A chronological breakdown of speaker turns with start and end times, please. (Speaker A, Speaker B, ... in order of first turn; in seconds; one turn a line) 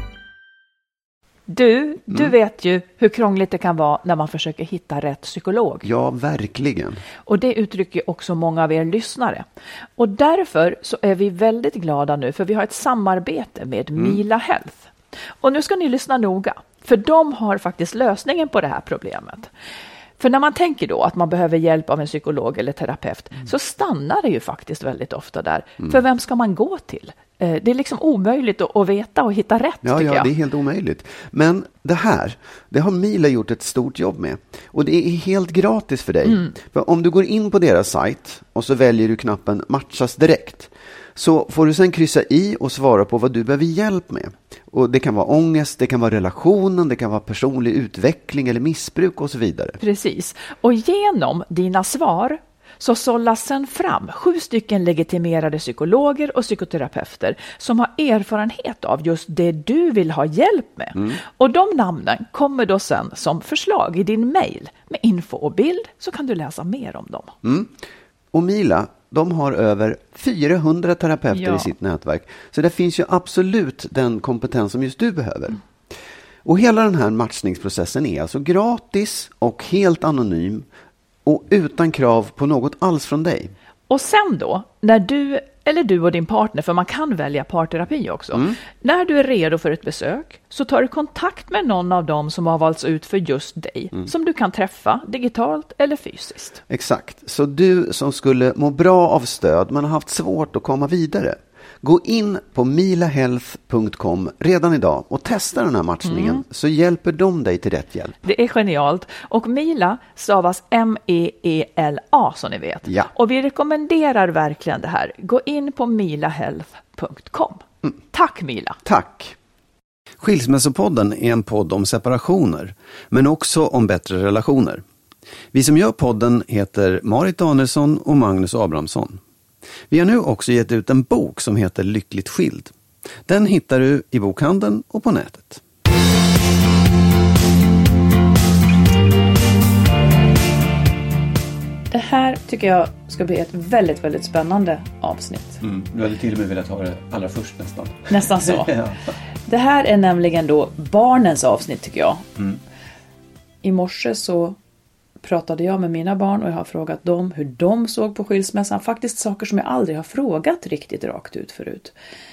Speaker A: 1.5-5.9
Speaker B: 5.8-7.0
Speaker A: 7.3-9.5
Speaker A: 10.0-19.5
Speaker B: 14.0-14.2
Speaker A: 20.2-30.3
Speaker B: 29.8-49.8
Speaker A: 36.2-36.5
Speaker A: 49.8-67.3
Speaker B: 60.9-61.2
Speaker B: 67.4-67.8
Speaker B: 68.3-75.6
Speaker A: 71.3-71.7
Speaker B: 76.4-80.7
Speaker B: 81.2-83.5
Speaker A: 83.9-96.6
Speaker B: 88.3-88.6
Speaker B: 96.7-108.2
Speaker A: 106.0-106.4
Speaker A: 108.2-118.8
Speaker B: 112.8-113.1
Speaker B: 118.8-119.4
Speaker C: 120.2-124.8
Speaker C: 125.5-129.2
Speaker C: 129.9-135.6
Speaker A: 141.9-145.6
Speaker C: 145.6-149.2
Speaker A: 148.1-148.8
Speaker A: 149.5-152.2
Speaker A: 153.6-154.6
Speaker A: 155.2-161.9